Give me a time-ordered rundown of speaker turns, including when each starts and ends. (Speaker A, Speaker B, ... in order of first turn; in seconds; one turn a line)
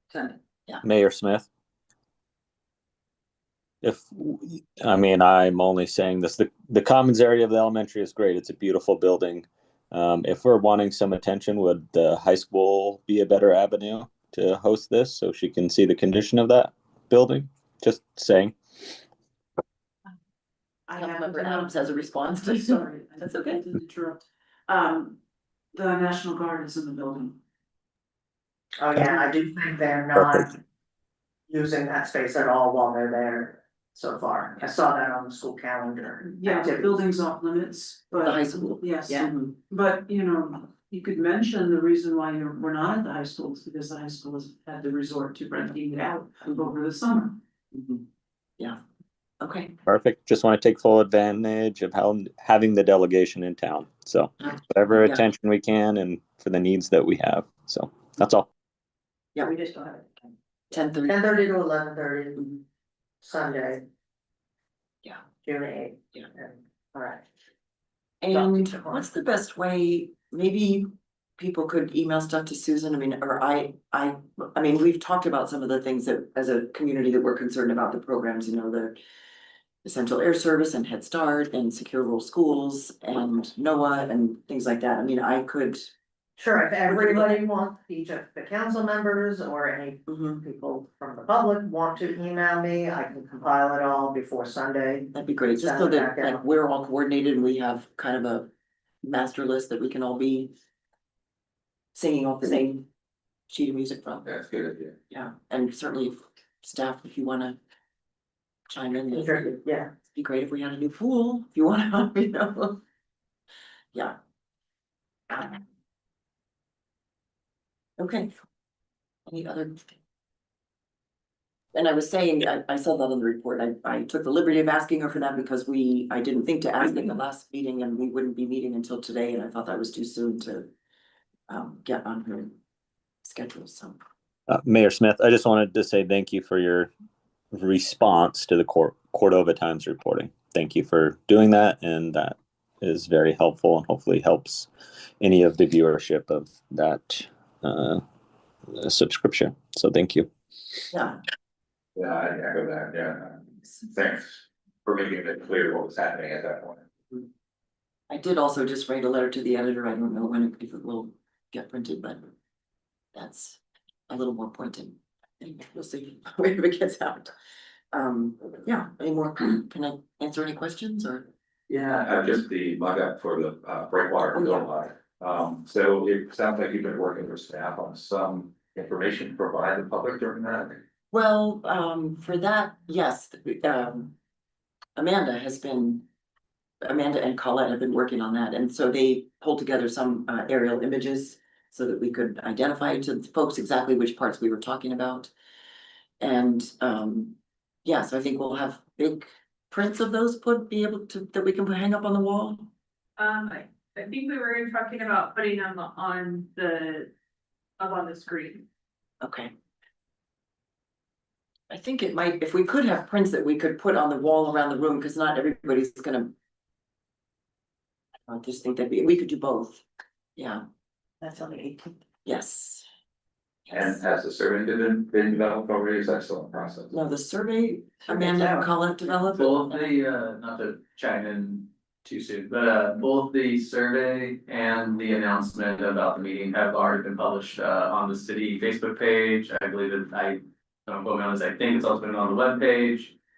Speaker A: 0.8-1.5
Speaker A: 3.8-19.0
Speaker B: 20.9-25.2
Speaker C: 20.9-23.6
Speaker B: 25.7-27.4
Speaker D: 28.8-30.6
Speaker A: 30.1-30.5
Speaker D: 31.5-36.9
Speaker B: 36.2-47.4
Speaker C: 38.2-39.4
Speaker C: 47.7-48.0
Speaker C: 49.4-49.8
Speaker A: 49.9-58.5
Speaker C: 60.7-61.2
Speaker D: 61.0-62.6
Speaker D: 63.2-63.8
Speaker D: 65.4-67.2
Speaker C: 68.2-79.0
Speaker D: 68.3-69.0
Speaker C: 79.8-85.9
Speaker D: 86.4-96.4
Speaker C: 86.9-87.4
Speaker C: 90.1-90.4
Speaker C: 95.1-98.5
Speaker C: 99.0-100.5
Speaker C: 101.9-102.8
Speaker C: 103.5-104.3
Speaker E: 104.2-104.9
Speaker C: 105.1-107.6
Speaker C: 108.7-112.8
Speaker D: 109.1-109.9
Speaker C: 115.3-115.6
Speaker C: 118.0-118.3
Speaker C: 119.3-119.8
Speaker C: 121.7-130.7
Speaker C: 131.5-132.6
Speaker C: 133.2-134.0
Speaker A: 134.5-136.9
Speaker A: 137.5-144.7
Speaker A: 145.2-148.0
Speaker A: 148.7-150.8
Speaker C: 150.9-151.2
Speaker E: 151.9-156.8
Speaker C: 158.1-162.2
Speaker C: 163.1-167.3
Speaker C: 167.9-171.3
Speaker E: 171.7-180.8
Speaker C: 174.3-174.7
Speaker C: 181.1-184.1
Speaker C: 185.0-186.0
Speaker C: 186.8-195.3
Speaker C: 196.2-202.7
Speaker F: 203.2-207.1
Speaker F: 207.8-208.6
Speaker C: 209.2-209.5
Speaker C: 211.7-216.3
Speaker C: 218.3-219.8
Speaker C: 220.3-220.6
Speaker D: 221.2-221.9
Speaker C: 222.2-222.8
Speaker C: 223.7-224.0
Speaker E: 223.7-226.9
Speaker C: 226.9-229.9
Speaker G: 229.3-243.1